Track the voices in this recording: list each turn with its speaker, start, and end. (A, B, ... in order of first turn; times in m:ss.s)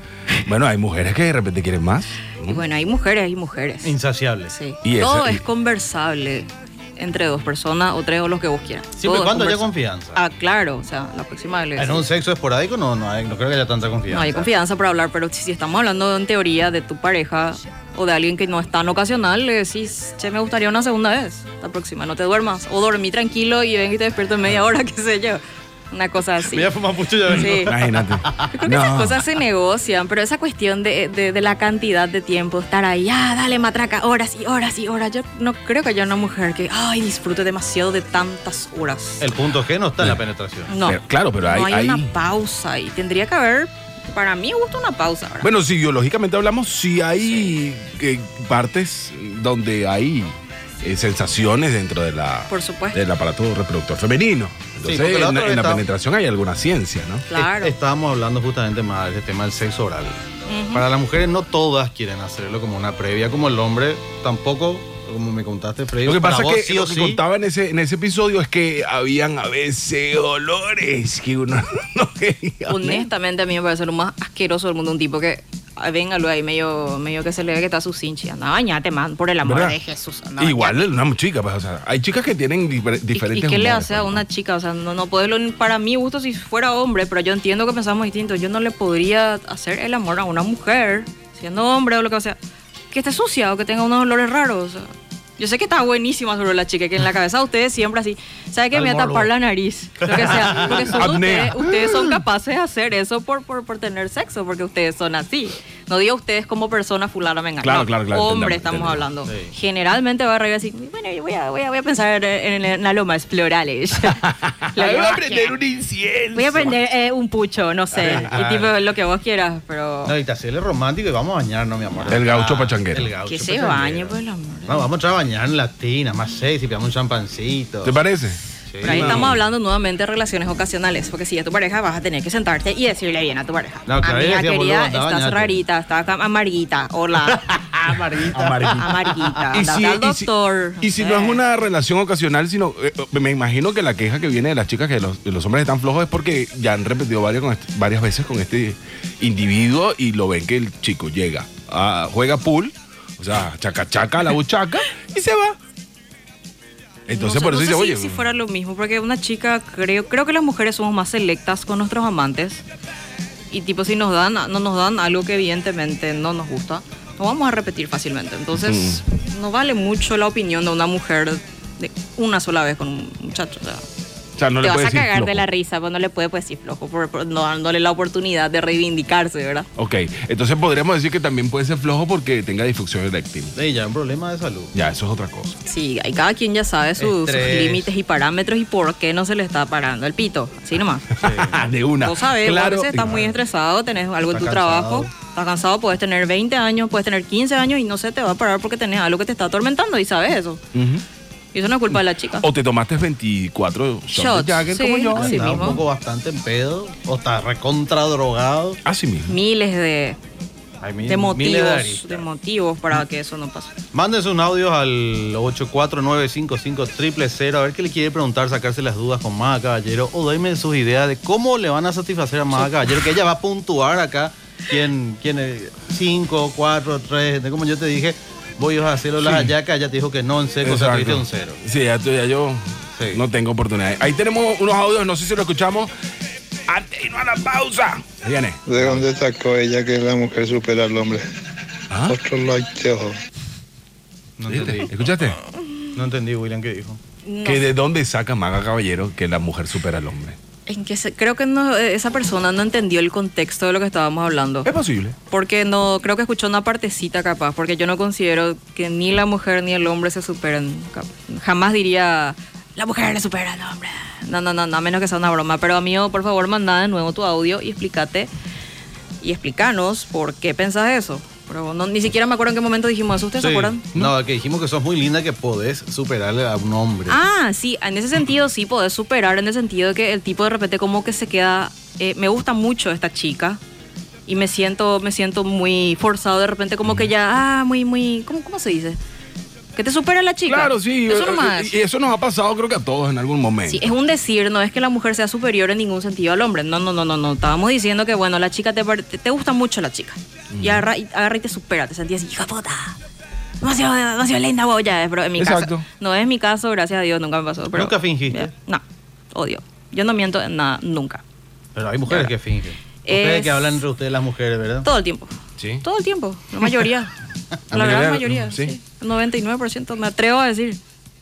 0:00.4-0:02.6 A
0:02.5-0:03.9 B
0:03.8-0:04.5 C
0:04.5-0:12.0 B
0:04.8-0:05.4 A
0:09.0-0:10.2 C
0:11.8-0:14.5 C
0:14.1-0:26.7 B
0:26.5-0:28.4 C
0:27.3-0:29.2 A
0:27.3-0:27.7 B
0:28.5-0:39.3 B
0:39.2-0:40.7 C
0:40.7-0:45.5 B
0:40.8-0:42.1 A
0:45.4-0:57.3 A
0:47.2-0:47.5 B
0:52.5-0:53.0 B
0:54.9-0:55.8 C
0:57.3-0:57.8 B
0:57.4-1:00.2 C
1:00.5-1:00.8 B
1:00.7-1:07.2 C
1:06.0-1:13.1 A
1:12.7-1:20.9 B
1:19.4-1:19.8 A
1:20.4-1:24.2 A
1:23.1-1:32.4 B
1:32.9-1:54.2 B
1:38.7-1:39.3 C
1:40.0-1:41.0 C
1:40.5-1:42.2 A
1:47.6-1:49.1 A
1:49.3-1:49.5 C
1:54.1-1:56.8 A
1:54.8-1:55.5 B
1:56.3-2:00.1 B
1:57.9-1:58.8 C
2:00.0-2:08.0 C
2:02.1-2:03.1 A
2:03.2-2:04.9 B
2:07.8-2:09.4 A
2:08.7-2:09.3 C
2:08.8-2:17.5 B
2:13.9-2:15.6 C
2:17.4-2:19.3 C
2:18.3-2:18.9 A
2:18.7-2:21.4 B
2:19.5-2:35.6 A
2:37.1-2:38.2 A
2:37.1-2:42.6 B
2:43.5-2:53.8 B
2:48.6-2:49.0 A
2:54.4-2:55.4 A
2:54.6-2:59.7 B
2:59.8-3:03.6 A
3:03.6-3:04.7 C
3:04.7-3:05.6 A
3:05.7-3:11.1 B
3:07.0-3:07.9 C
3:11.2-3:13.2 A
3:11.2-3:11.7 C
3:12.0-3:20.6 B
3:13.0-3:13.3 C
3:14.3-3:15.1 C
3:20.7-3:21.0 A
3:21.5-3:22.5 B
3:21.9-3:25.8 A
3:24.1-3:25.8 B
3:25.2-3:28.8 C
3:28.8-3:29.3 A
3:29.3-3:30.2 B
3:30.8-3:32.2 C
3:31.1-3:33.7 B
3:33.9-3:51.6 C
3:49.2-3:49.5 A
3:50.6-3:55.9 A
3:53.0-3:53.2 C
3:56.7-3:59.1 A
3:58.7-4:01.3 D
4:01.9-4:02.2 A
4:02.1-4:03.2 D
4:04.4-4:04.9 C
4:04.5-4:05.4 A
4:06.0-4:07.0 C
4:07.2-4:07.7 B
4:07.4-4:10.4 A
4:10.7-4:14.7 B
4:14.6-4:15.2 A
4:15.3-4:28.3 B
4:29.2-4:33.8 B
4:33.4-4:37.2 C
4:37.1-4:43.6 B
4:44.3-4:49.0 B
4:49.8-4:51.7 B
4:50.5-4:53.9 A
4:53.7-5:03.0 B
5:00.5-5:00.9 A
5:03.6-5:11.2 B
5:05.4-5:05.8 A
5:07.7-5:08.5 C
5:11.8-5:14.9 C
5:13.0-5:13.8 B
5:14.8-5:17.1 B
5:15.6-5:15.8 A
5:17.7-5:18.8 A
5:17.7-5:20.8 B